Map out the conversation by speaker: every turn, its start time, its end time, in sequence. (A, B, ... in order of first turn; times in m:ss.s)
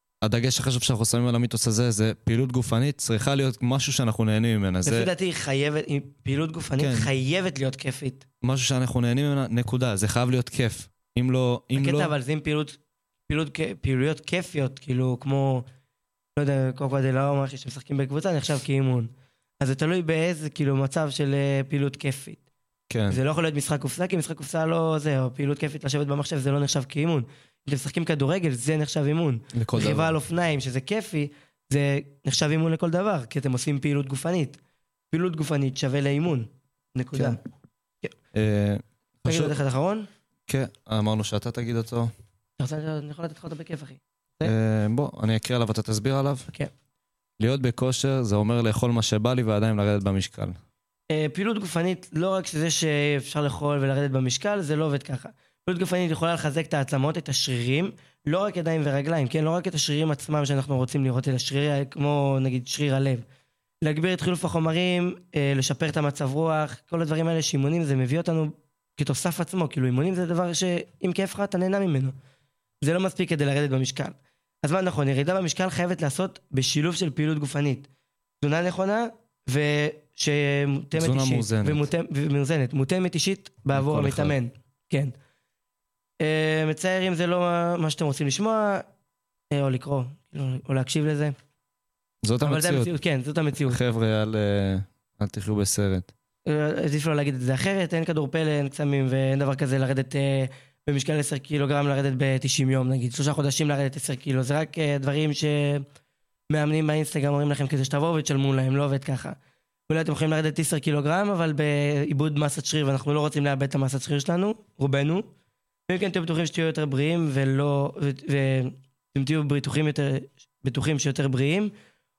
0:00.2-0:05.1 A
0:04.8-0:08.2 B
0:06.8-0:07.1 A
0:08.4-0:12.1 A
0:11.7-0:12.8 B
0:13.3-0:15.6 B
0:16.4-0:22.4 B
0:22.9-0:23.2 A
0:23.1-0:34.6 B
0:29.5-0:30.2 A
0:35.1-0:37.4 B
0:37.1-0:37.4 A
0:38.3-0:39.6 A
0:39.2-0:40.1 B
0:40.5-0:42.1 A
0:42.6-0:44.5 B
0:44.4-0:46.5 A
0:47.4-0:50.6 A
0:51.1-1:03.2 B
1:03.8-1:12.1 B
1:12.8-1:17.9 B
1:18.4-1:25.1 B
1:21.0-1:21.9 A
1:23.7-1:24.4 A
1:26.2-1:28.8 B
1:29.5-1:31.3 B
1:32.2-1:32.9 A
1:32.4-1:33.8 B
1:33.7-1:36.1 A
1:36.4-1:45.8 B
1:46.5-1:49.4 B
1:49.9-1:55.3 B
1:55.9-2:01.7 B